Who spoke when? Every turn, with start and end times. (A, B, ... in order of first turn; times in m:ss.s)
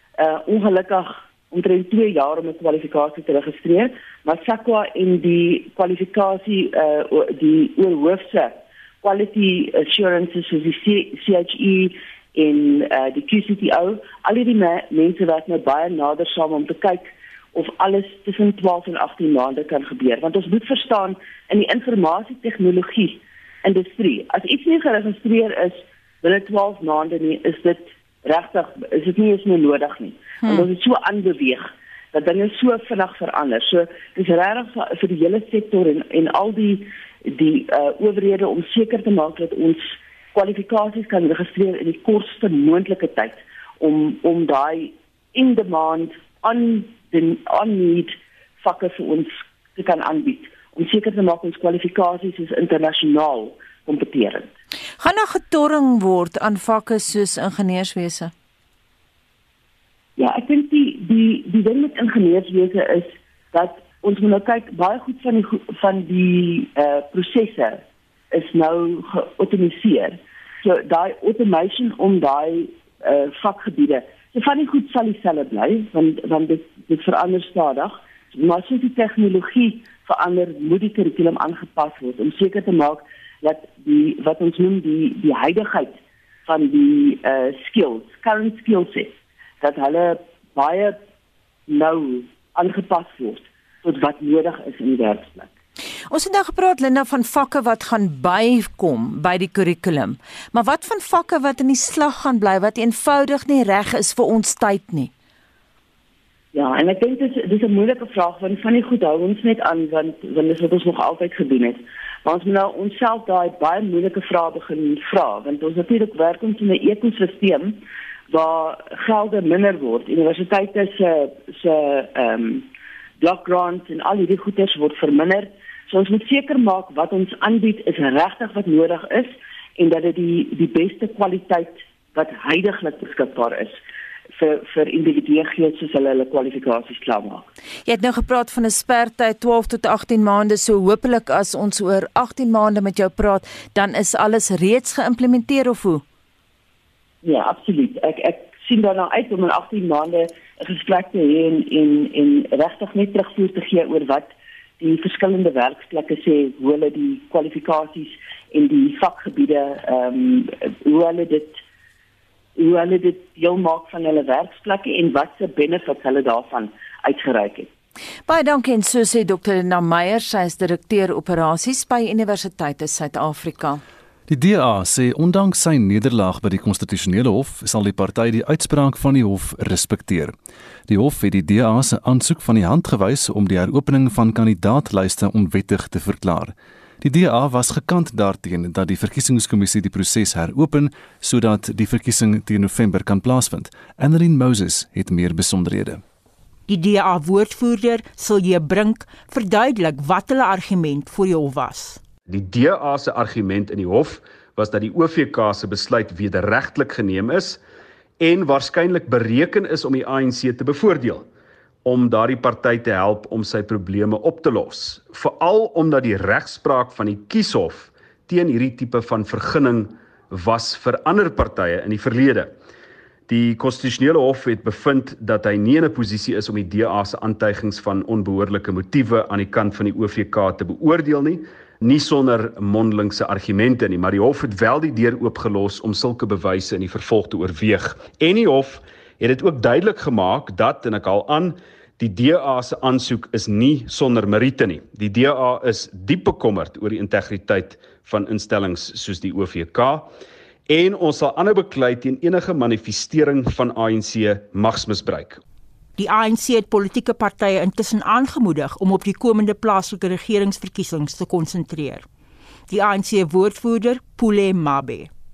0:00.2-0:54.5 A
0:55.0-0:58.3 B
1:00.2-1:31.0 A
1:31.7-1:35.5 A
1:36.1-1:45.1 B
1:46.5-2:02.7 A
2:03.2-2:13.8 A
2:14.4-2:17.5 A
2:17.9-2:26.0 B
2:27.2-2:41.6 A
2:42.6-2:47.7 A
2:48.3-2:53.8 B
2:54.3-3:00.3 C
3:00.9-3:16.0 C
3:16.7-3:22.0 D
3:22.3-3:27.6 E
3:28.2-3:31.3 E
3:31.8-3:42.6 E
3:43.3-4:10.1 E
4:10.7-4:15.4 E
4:16.0-4:22.1 D
4:22.7-4:25.1 D